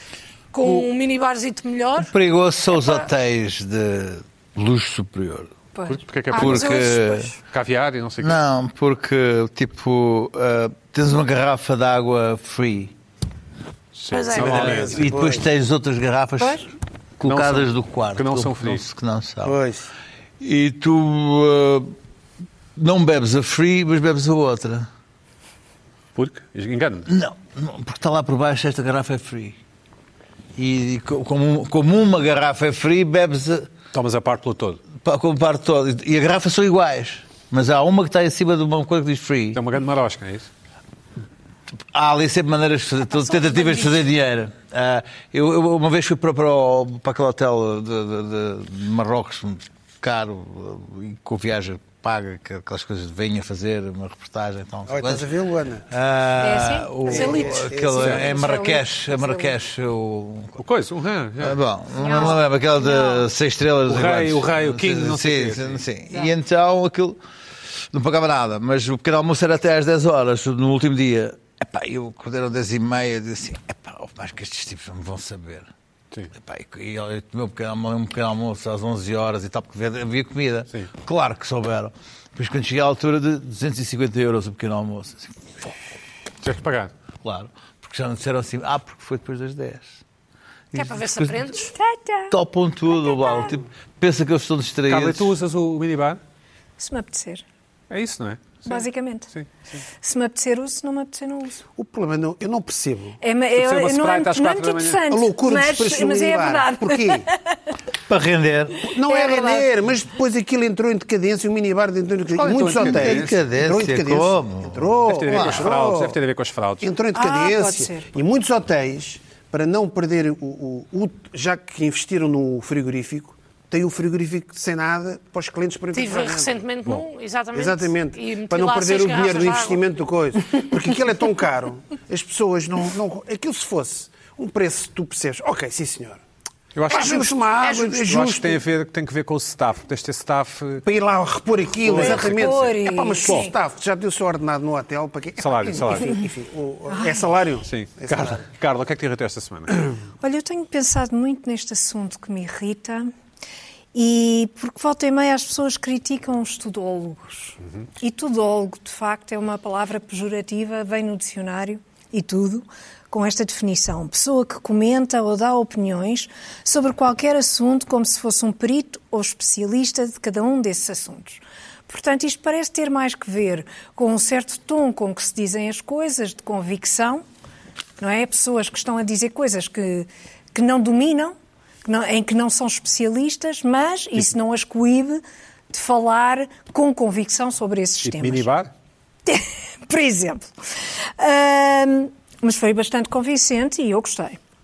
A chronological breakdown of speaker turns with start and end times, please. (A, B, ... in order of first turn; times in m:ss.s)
0:00.5-0:02.1 A
0:02.0-0:05.5 B
0:02.8-0:03.0 A
0:05.7-0:06.0 C
0:05.8-0:06.8 D
0:06.3-0:07.4 A
0:06.3-0:07.3 B
0:07.5-0:08.4 D
0:08.2-0:12.9 B
0:13.9-0:15.1 D
0:14.1-0:14.7 A
0:14.3-0:15.5 E
0:14.4-0:19.6 B
0:16.4-0:16.6 C
0:17.2-0:18.8 D
0:19.4-0:19.9 E
0:20.4-0:21.9 B
0:22.8-0:24.9 B
0:26.1-0:27.1 D
0:27.1-0:29.6 B
0:30.6-0:33.7 B
0:33.9-0:34.8 D
0:34.9-0:39.6 B
0:39.5-0:40.5 D
0:41.9-0:55.3 B
0:43.5-0:43.8 A
0:54.9-0:55.9 E
0:55.9-1:00.6 B
0:56.4-0:59.5 C
0:57.0-0:58.4 E
0:57.1-0:57.5 A
0:58.0-0:58.3 D
1:00.6-1:01.6 D
1:01.4-1:07.2 B
1:02.0-1:03.3 C
1:03.9-1:05.8 D
1:07.9-1:15.7 B
1:16.3-1:25.3 B
1:26.4-1:26.9 D
1:27.2-1:30.0 B
1:30.7-1:31.4 B
1:30.7-1:31.7 A
1:31.7-1:32.3 C
1:32.3-1:35.3 B
1:32.9-1:33.6 C
1:34.9-1:36.2 D
1:36.8-1:37.4 C
1:37.9-1:39.8 D
1:38.6-1:39.3 C
1:40.0-1:41.6 C
1:41.6-1:43.2 E
1:43.2-1:47.7 C
1:43.6-1:45.0 D
1:45.1-1:47.3 E
1:48.1-1:48.9 B
1:48.8-1:56.2 E
1:48.9-1:49.7 C
1:52.3-1:53.3 D
1:52.7-1:55.7 B
1:55.0-1:56.9 D
1:56.8-2:06.6 E
1:57.1-1:58.1 C
2:05.9-2:09.8 A
2:07.5-2:16.2 E
2:16.7-2:20.8 D
2:16.9-2:18.6 E
2:20.8-2:28.4 E
2:21.8-2:22.7 D
2:21.9-2:23.5 C
2:23.2-2:23.5 D
2:25.4-2:26.2 D
2:26.9-2:27.2 C
2:27.6-2:29.9 D
2:30.2-2:33.1 C
2:33.9-2:57.2 C
2:58.0-3:08.5 C
3:08.0-3:08.7 D
3:09.2-3:10.5 C
3:11.2-3:14.4 C